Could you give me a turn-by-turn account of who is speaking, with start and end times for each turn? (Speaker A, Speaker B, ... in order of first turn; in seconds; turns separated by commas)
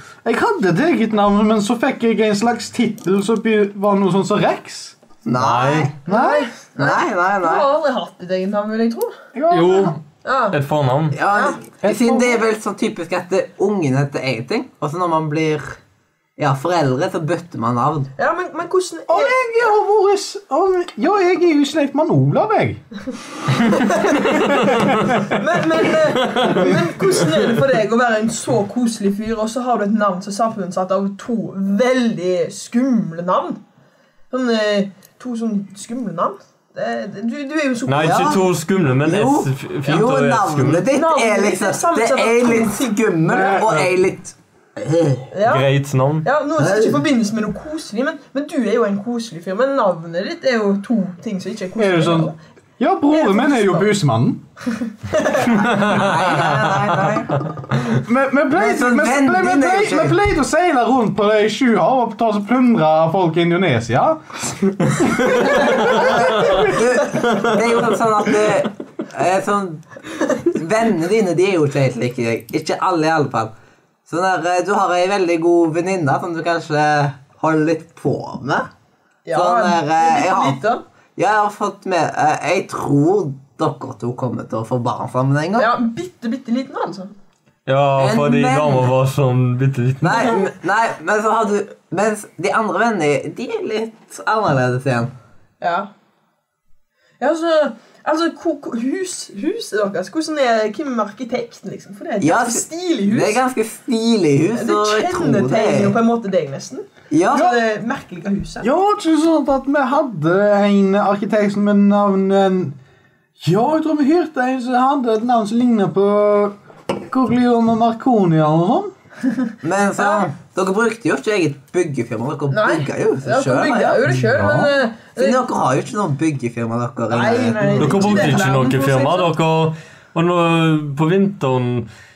Speaker A: 0.2-5.0, Speaker B: 5.2-6.0, Speaker C: 5.4-5.9, Speaker D: 6.1-9.2, Speaker A: 6.1-6.5, Speaker B: 6.8-7.7, Speaker A: 9.3-10.0, Speaker C: 9.5-10.0, Speaker D: 10.2-10.6, Speaker C: 10.5-11.2, Speaker B: 11.2-15.8, Speaker D: 11.3-11.6, Speaker A: 11.8-12.4, Speaker B: 16.4-18.1, Speaker D: 18.2-19.4, Speaker A: 19.1-22.8, Speaker D: 23.7-33.6, Speaker C: 26.3-26.7, Speaker D: 34.3-38.4, Speaker C: 37.9-40.9, Speaker B: 38.0-38.4, Speaker B: 39.0-45.3, Speaker D: 40.9-43.0, Speaker A: 43.3-43.9, Speaker D: 45.3-45.7, Speaker C: 45.5-46.3, Speaker D: 46.2-52.4, Speaker B: 46.6-47.0, Speaker A: 51.8-54.4, Speaker D: 53.1-53.9, Speaker D: 55.1-55.7, Speaker C: 55.5-56.7, Speaker B: 55.8-57.4, Speaker A: 58.0-64.2, Speaker B: 58.5-60.2, Speaker C: 64.8-66.6, Speaker A: 65.0-66.7, Speaker B: 65.3-73.5, Speaker D: 65.7-67.3, Speaker C: 67.2-67.6, Speaker B: 74.1-78.7, Speaker D: 79.3-80.8, Speaker B: 79.3-80.6, Speaker B: 81.2-85.7, Speaker D: 85.6-87.1, Speaker C: 87.7-90.3, Speaker B: 88.0-88.9, Speaker B: 90.0-95.1, Speaker D: 95.6-95.9, Speaker D: 97.2-103.4, Speaker B: 102.2-106.0, Speaker D: 104.5-108.7, Speaker B: 107.1-107.6, Speaker A: 108.6-112.8, Speaker A: 113.4-118.9, Speaker B: 119.6-124.0, Speaker D: 120.0-120.2, Speaker D: 122.5-125.4, Speaker A: 124.1-124.8, Speaker B: 125.2-128.3, Speaker D: 127.1-129.3, Speaker C: 127.8-131.9